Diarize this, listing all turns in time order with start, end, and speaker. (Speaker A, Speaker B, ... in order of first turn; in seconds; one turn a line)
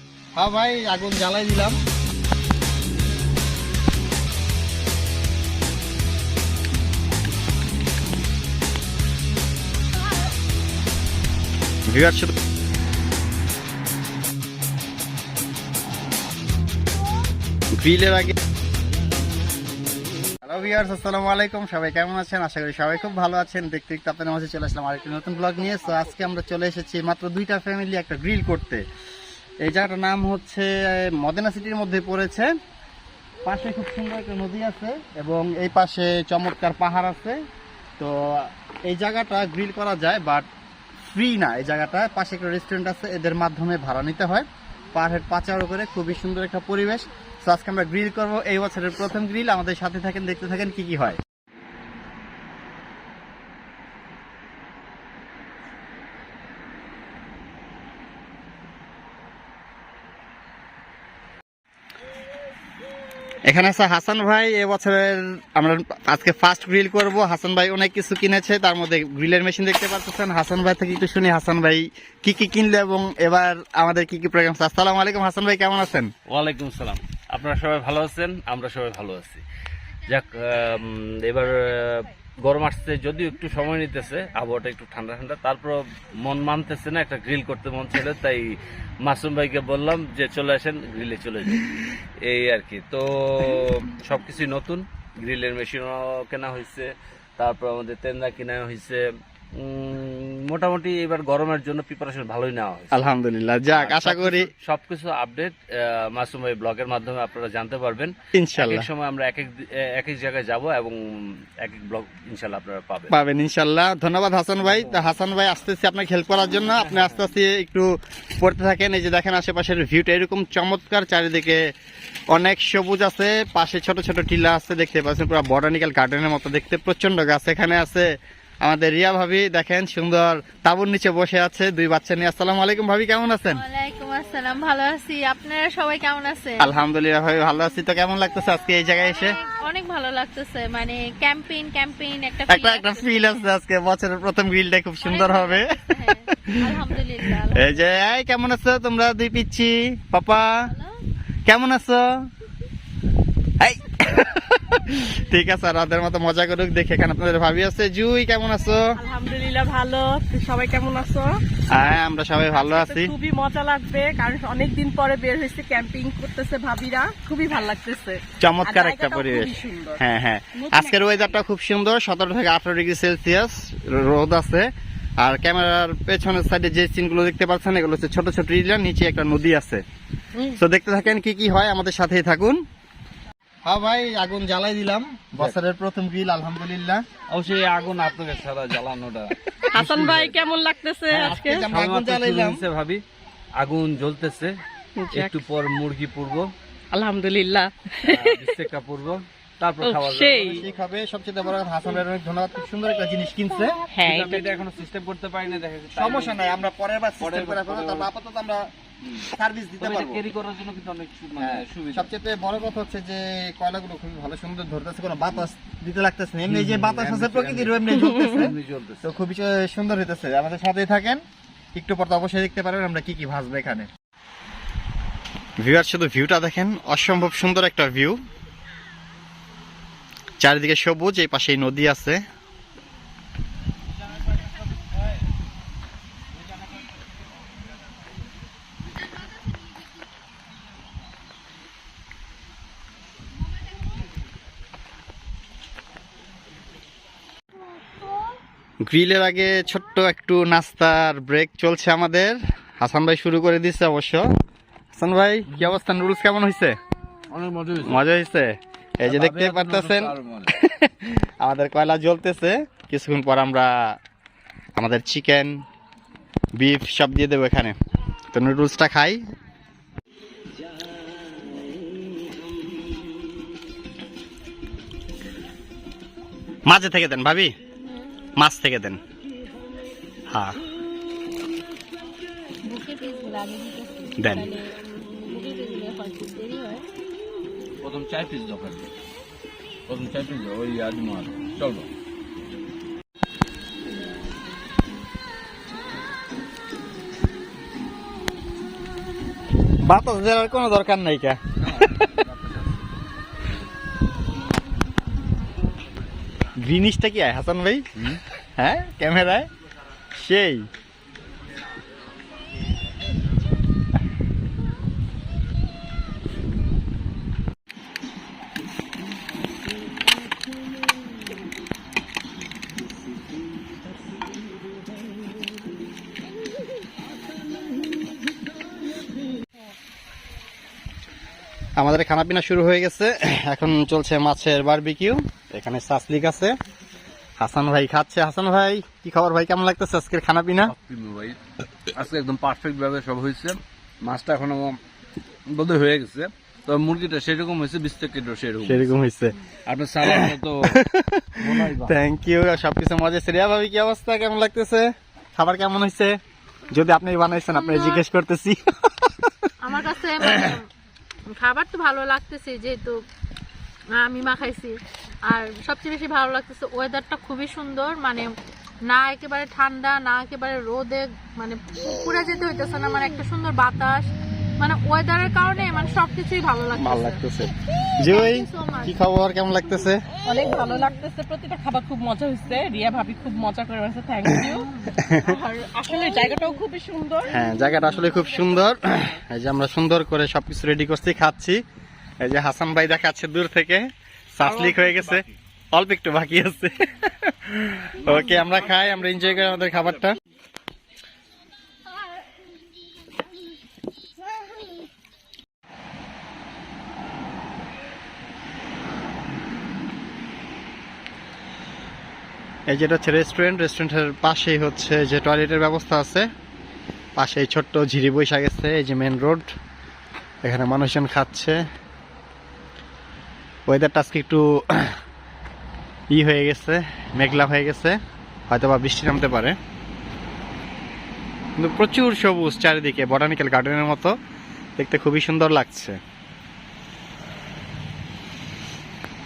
Speaker A: 0.3-1.8
Speaker A: 11.9-12.3
Speaker A: 17.8-18.3
Speaker A: 20.4-28.8
Speaker A: 29.6-32.5
Speaker A: 33.4-37.4
Speaker A: 38.0-40.5
Speaker A: 41.1-51.2
Speaker A: 63.5-76.1
Speaker B: 76.3-79.4
Speaker B: 80.1-91.7
Speaker B: 92.2-99.0
Speaker B: 99.5-103.0
Speaker A: 102.9-104.5
Speaker B: 103.7-113.1
Speaker A: 108.3-108.9
Speaker A: 113.1-121.7
Speaker B: 114.7-115.0
Speaker B: 116.8-117.2
Speaker A: 122.3-128.1
Speaker A: 128.6-133.6
Speaker C: 133.5-136.8
Speaker A: 136.6-139.3
Speaker C: 139.0-143.4
Speaker A: 142.5-146.8
Speaker C: 145.0-147.9
Speaker A: 147.5-150.7
Speaker C: 150.5-150.9
Speaker A: 151.4-152.2
Speaker A: 153.6-158.9
Speaker D: 158.9-162.0
Speaker A: 161.7-163.1
Speaker D: 162.5-170.0
Speaker A: 168.4-179.8
Speaker D: 170.6-171.0
Speaker A: 180.5-182.6
Speaker A: 183.6-187.0
Speaker B: 187.3-189.3
Speaker D: 189.7-191.7
Speaker A: 189.7-190.3
Speaker A: 191.1-192.6
Speaker B: 191.6-193.0
Speaker B: 193.6-194.6
Speaker D: 195.0-195.4
Speaker B: 195.1-196.5
Speaker D: 196.9-198.4
Speaker B: 198.0-200.7
Speaker D: 199.8-200.6
Speaker A: 200.5-203.8
Speaker D: 203.9-204.4
Speaker B: 204.0-206.5
Speaker A: 205.9-208.7
Speaker B: 207.2-208.1
Speaker A: 209.3-210.2
Speaker B: 209.8-212.1
Speaker A: 211.4-221.2
Speaker B: 216.5-219.1
Speaker D: 218.0-218.3
Speaker A: 221.7-223.9
Speaker A: 225.6-228.2
Speaker A: 230.4-232.2
Speaker A: 248.8-254.2
Speaker A: 254.9-256.8
Speaker B: 255.5-255.8
Speaker B: 257.3-258.0
Speaker A: 257.8-264.0
Speaker B: 259.0-260.5
Speaker A: 264.8-265.6
Speaker A: 266.5-267.8
Speaker A: 268.3-269.2
Speaker A: 276.7-277.5
Speaker A: 278.4-279.0
Speaker A: 280.3-280.6
Speaker C: 282.6-286.9
Speaker A: 284.2-284.5
Speaker B: 287.8-288.9
Speaker B: 289.9-291.9
Speaker A: 299.8-302.0
Speaker B: 301.6-302.8
Speaker A: 306.6-307.9
Speaker A: 308.6-309.5
Speaker A: 310.1-310.7
Speaker A: 331.8-336.5
Speaker A: 337.4-340.7
Speaker B: 340.6-341.4
Speaker B: 341.9-344.8
Speaker B: 345.5-348.9
Speaker A: 348.6-349.4
Speaker B: 349.6-350.8
Speaker A: 350.0-356.2
Speaker B: 351.4-351.9
Speaker A: 356.7-359.5
Speaker C: 357.5-358.0
Speaker C: 359.6-360.6
Speaker A: 360.2-360.5
Speaker C: 361.4-363.0
Speaker C: 363.9-368.3
Speaker C: 368.9-377.2
Speaker A: 376.7-380.0
Speaker C: 378.0-379.0
Speaker D: 380.2-384.7
Speaker A: 384.9-385.3
Speaker D: 385.2-387.4
Speaker A: 387.3-391.6
Speaker A: 392.2-393.8
Speaker A: 394.3-400.1
Speaker B: 394.4-395.2
Speaker A: 412.7-416.3
Speaker A: 417.2-419.5
Speaker A: 420.4-421.6
Speaker A: 423.7-424.9
Speaker A: 426.1-428.0
Speaker A: 428.5-429.6
Speaker A: 431.6-434.1
Speaker A: 434.8-436.0